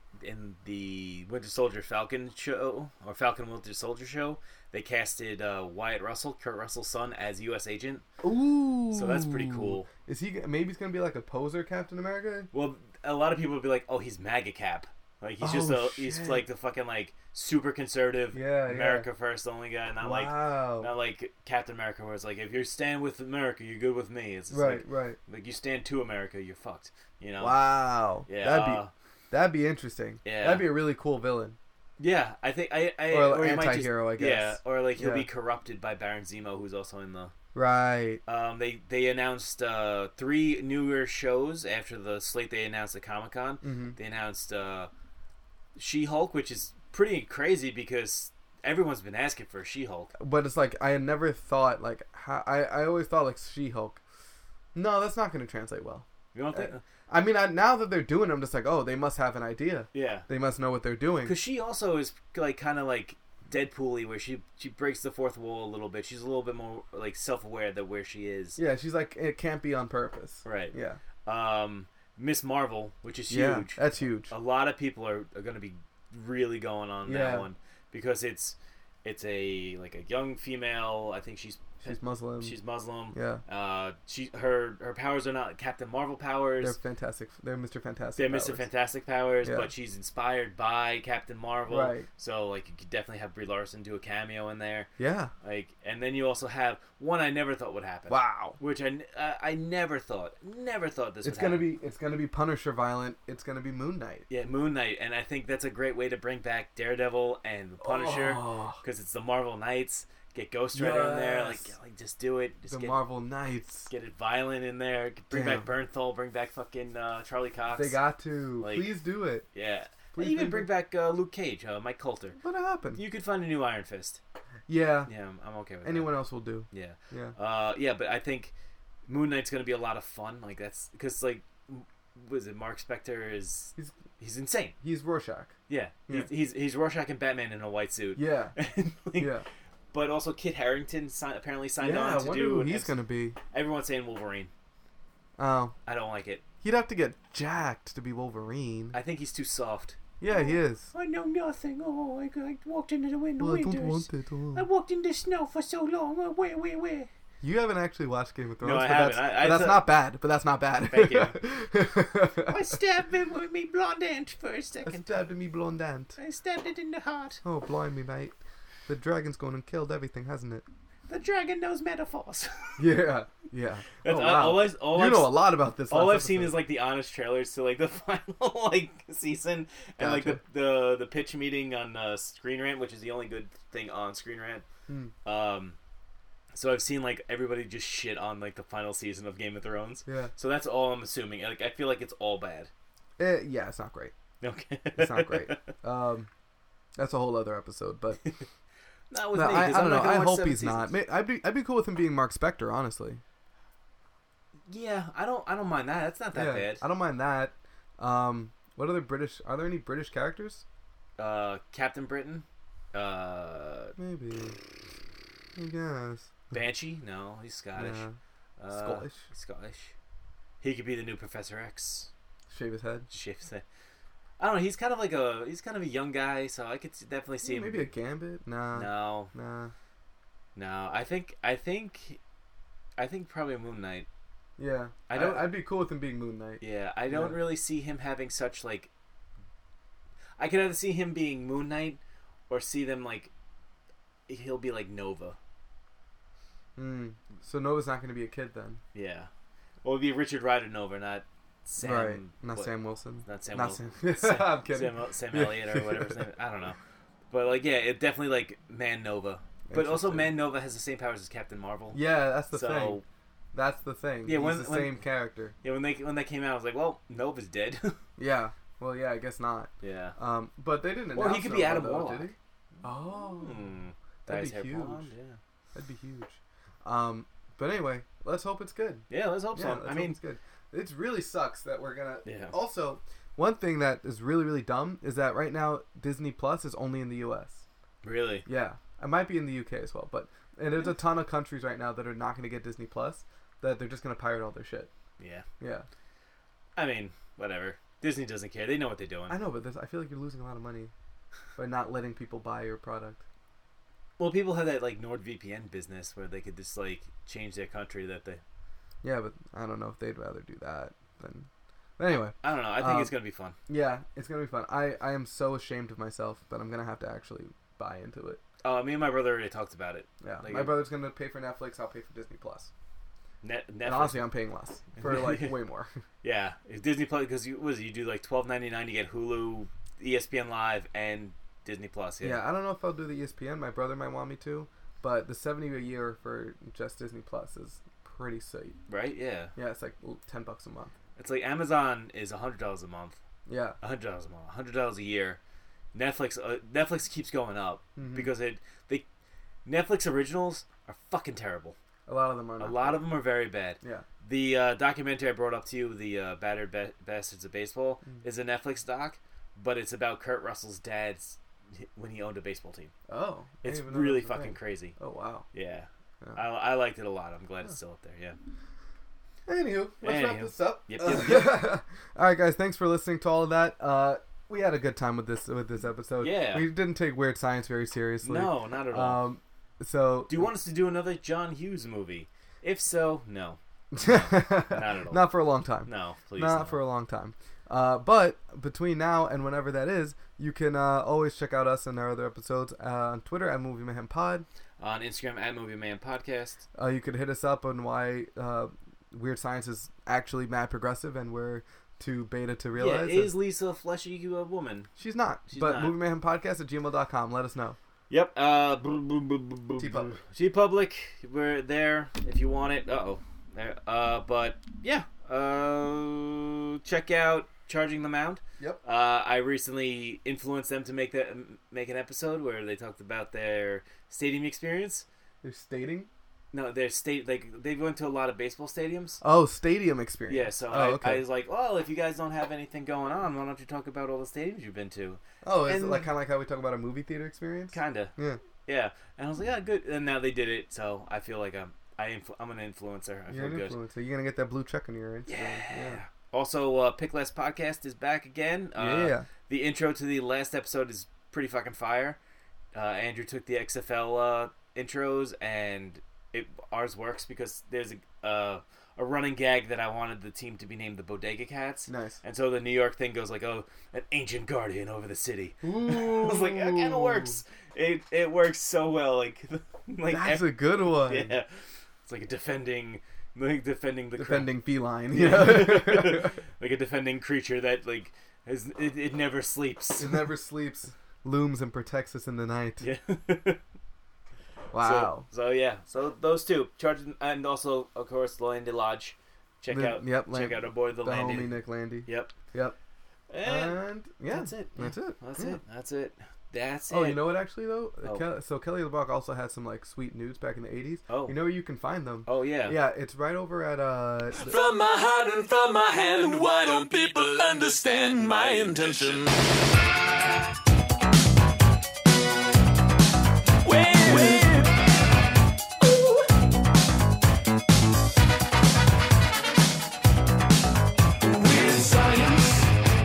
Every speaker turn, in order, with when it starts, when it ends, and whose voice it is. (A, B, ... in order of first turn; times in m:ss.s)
0:00.2-0:08.0 A
0:08.2-0:12.5 B
0:08.9-0:09.9 A
0:12.5-0:27.6 A
0:15.4-0:16.4 B
0:18.3-0:19.1 B
0:20.0-0:20.9 B
0:24.5-0:25.2 B
0:27.4-0:31.6 B
0:28.2-0:28.9 A
0:30.2-0:30.7 A
0:32.0-0:37.3 A
0:33.1-0:35.3 B
0:37.5-0:38.2 B
0:38.2-0:44.9 A
0:43.6-0:44.0 B
0:45.8-0:50.1 A
0:50.2-0:54.0 B
0:54.7-1:01.4 B
0:56.3-0:56.8 A
0:59.9-1:00.3 A
1:01.2-1:08.6 A
1:08.6-1:11.0 B
1:10.4-1:26.8 A
1:13.3-1:14.3 B
1:17.0-1:17.5 B
1:21.8-1:22.5 B
1:23.1-1:23.4 B
1:26.6-1:28.6 B
1:28.2-1:34.9 A
1:29.4-1:29.7 B
1:31.7-1:32.1 B
1:35.0-1:35.3 B
1:35.4-1:41.7 A
1:38.1-1:38.6 B
1:41.2-1:44.3 B
1:44.3-1:53.0 A
1:47.8-1:48.8 B
1:50.7-1:51.7 B
1:52.7-1:53.9 B
1:53.9-1:58.0 A
1:55.3-1:55.7 B
1:57.7-1:59.5 B
1:58.6-1:58.9 A
1:59.5-2:02.4 A
2:00.1-2:00.7 B
2:02.4-2:03.0 B
2:02.9-2:04.2 A
2:04.7-2:05.1 B
2:05.1-2:06.2 A
2:05.8-2:07.4 B
2:06.7-2:08.5 A
2:09.1-2:14.8 A
2:14.8-2:15.6 B
2:15.7-2:19.4 A
2:18.2-2:18.5 B
2:19.2-2:19.4 B
2:19.9-2:22.9 A
2:21.8-2:23.4 B
2:23.5-2:24.5 A
2:25.4-2:25.8 B
2:25.8-2:26.4 A
2:26.6-2:29.0 B
2:28.9-2:37.1 A
2:30.2-2:30.9 B
2:33.4-2:34.6 B
2:37.4-2:42.6 B
2:38.6-2:39.9 A
2:40.9-2:41.4 A
2:42.4-2:45.1 A
2:44.8-2:46.2 B
2:46.2-2:47.4 A
2:47.4-2:50.6 B
2:51.1-2:52.9 A
2:52.8-2:56.6 B
2:54.0-3:04.6 A
3:00.0-3:00.4 B
3:04.9-3:05.1 B
3:05.2-3:05.8 A
3:06.5-3:12.7 A
3:10.0-3:10.3 B
3:13.2-3:14.1 B
3:14.4-3:15.7 A
3:15.0-3:16.3 B
3:17.0-3:18.2 B
3:19.1-3:20.9 A
3:19.3-3:23.2 B
3:24.7-3:26.8 A
3:26.3-3:30.6 B
3:31.2-3:34.0 A
3:34.0-3:34.6 B
3:35.6-3:36.5 B
3:36.5-3:38.0 A
3:37.7-3:38.1 B
3:38.6-3:39.9 A
3:38.7-3:39.2 B
3:40.6-3:42.1 A
3:42.5-3:43.1 B
3:43.1-3:43.6 A
3:44.4-3:47.9 A
3:47.4-3:49.7 B
3:48.7-3:49.3 A
3:50.6-3:52.2 A
3:53.0-3:54.1 A
3:54.6-3:57.4 B
3:55.1-3:55.5 A
3:56.6-3:58.9 A
4:00.4-4:03.3 A
4:04.3-4:05.4 A
4:06.8-4:08.8 B
4:08.9-4:09.3 A
4:09.8-4:12.7 A
4:11.8-4:16.2 B
4:13.2-4:16.8 A
4:17.3-4:22.0 A
4:19.7-4:20.3 B
4:21.9-4:23.0 B
4:22.5-4:23.0 A
4:23.5-4:25.5 B
4:24.2-4:25.0 A
4:25.6-4:28.0 A
4:28.2-4:33.6 B
4:29.8-4:30.1 A
4:31.1-4:32.4 A
4:33.2-4:35.4 A
4:34.2-4:35.1 B
4:35.7-4:47.6 B
4:39.1-4:40.2 A
4:42.2-4:42.5 A
4:48.0-4:48.5 A
4:48.4-4:54.9 B
4:55.2-4:55.4 A
4:55.6-4:55.8 B
4:56.8-4:59.4 A
4:59.3-5:00.9 B
5:01.6-5:03.2 B
5:04.2-5:08.4 A
5:09.0-5:13.1 B
5:12.4-5:13.6 A
5:13.7-5:18.4 B
5:18.6-5:20.8 A
5:20.2-5:22.7 B
5:23.4-5:24.3 A
5:23.8-5:25.9 B
5:25.0-5:25.6 A
5:26.2-5:32.4 A
5:32.2-5:38.8 B
5:38.9-5:39.5 A
5:39.5-5:40.9 B
5:41.2-5:43.2 A
5:43.4-5:43.8 B
5:43.8-5:45.4 A
5:45.9-5:49.0 A
5:48.0-5:48.3 B
5:49.6-5:51.8 A
5:52.1-5:53.1 B
5:52.6-6:02.9 A
5:53.8-5:54.0 B
6:03.1-6:05.5 B
6:03.6-6:05.0 A
6:05.5-6:08.4 A
6:09.5-6:20.5 B
6:10.0-6:11.6 A
6:16.2-6:16.6 A
6:18.2-6:19.3 A
6:20.3-6:25.3 A
6:23.9-6:34.4 B
6:25.8-6:26.8 A
6:34.8-6:36.6 A
6:36.7-6:43.3 B
6:42.8-6:44.9 A
6:45.0-6:47.8 B
6:45.5-6:46.0 A
6:48.1-7:05.0 A
6:49.8-6:50.1 B
7:05.4-7:06.1 B
7:06.5-7:09.2 A
7:09.2-7:11.2 B
7:10.3-7:16.1 A
7:15.4-7:18.4 B
7:17.7-7:23.8 A
7:23.3-7:26.0 B
7:25.3-7:32.2 A
7:28.8-7:29.3 B
7:32.7-7:51.5 A
7:41.9-7:42.2 B
7:45.6-7:47.4 B
7:50.1-7:51.3 B
7:52.0-7:54.5 A
7:54.2-7:56.4 B
7:55.1-8:00.3 A
8:00.0-8:02.9 B
8:02.8-8:03.6 A
8:04.7-8:05.3 B
8:04.8-8:12.3 A
8:09.7-8:12.8 B
8:13.3-8:17.3 A
8:13.4-8:15.6 B
8:16.9-8:24.6 B
8:21.1-8:21.4 A
8:22.2-8:22.8 A
8:24.4-8:29.3 C
8:28.3-8:28.8 A
8:33.6-8:34.7 C
8:35.8-8:36.2 C
8:41.2-8:42.7 C